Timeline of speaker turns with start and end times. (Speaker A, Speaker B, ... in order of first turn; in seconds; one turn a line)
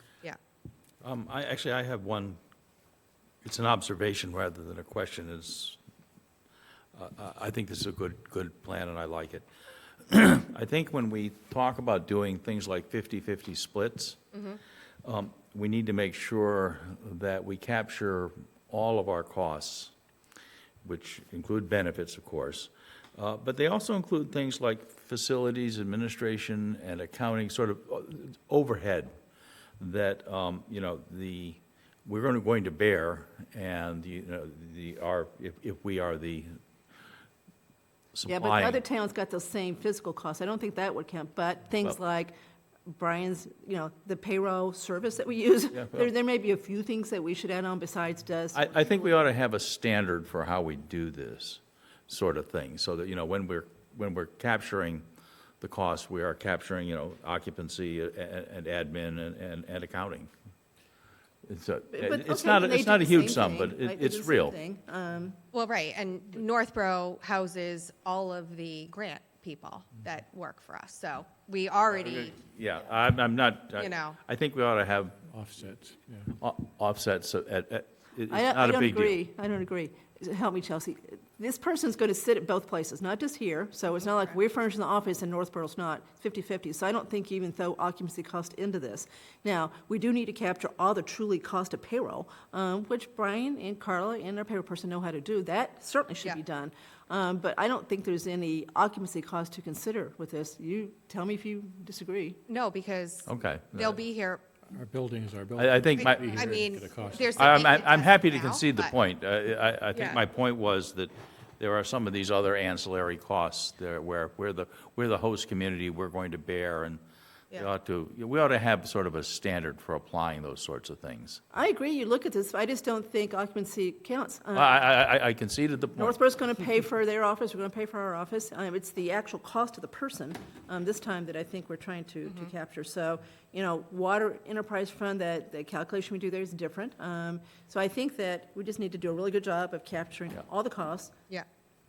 Speaker A: 1.0-2.4
Speaker A: 3.4-5.8
Speaker A: 6.9-9.5
Speaker A: 10.1-14.2
Speaker B: 14.3-14.6
Speaker A: 15.0-19.9
Speaker A: 20.8-29.1
Speaker A: 29.8-36.6
Speaker A: 38.1-38.8
Speaker C: 38.3-42.4
Speaker C: 42.9-48.7
Speaker A: 45.7-46.1
Speaker A: 48.5-55.0
Speaker A: 55.6-60.3
Speaker A: 61.5-64.6
Speaker C: 61.9-65.4
Speaker B: 65.5-72.3
Speaker A: 71.9-75.2
Speaker B: 73.8-74.2
Speaker D: 75.3-76.4
Speaker A: 76.4-79.2
Speaker C: 78.3-102.4
Speaker B: 102.5-104.4
Speaker A: 103.3-104.0
Speaker D: 104.7-107.5
Speaker A: 105.6-106.5
Speaker B: 106.0-109.0
Speaker A: 107.4-117.0
Speaker B: 109.9-110.2
Speaker A: 117.5-121.4
Speaker C: 121.5-124.8
Speaker A: 124.5-126.2
Speaker C: 126.0-141.1
Speaker B: 132.2-132.5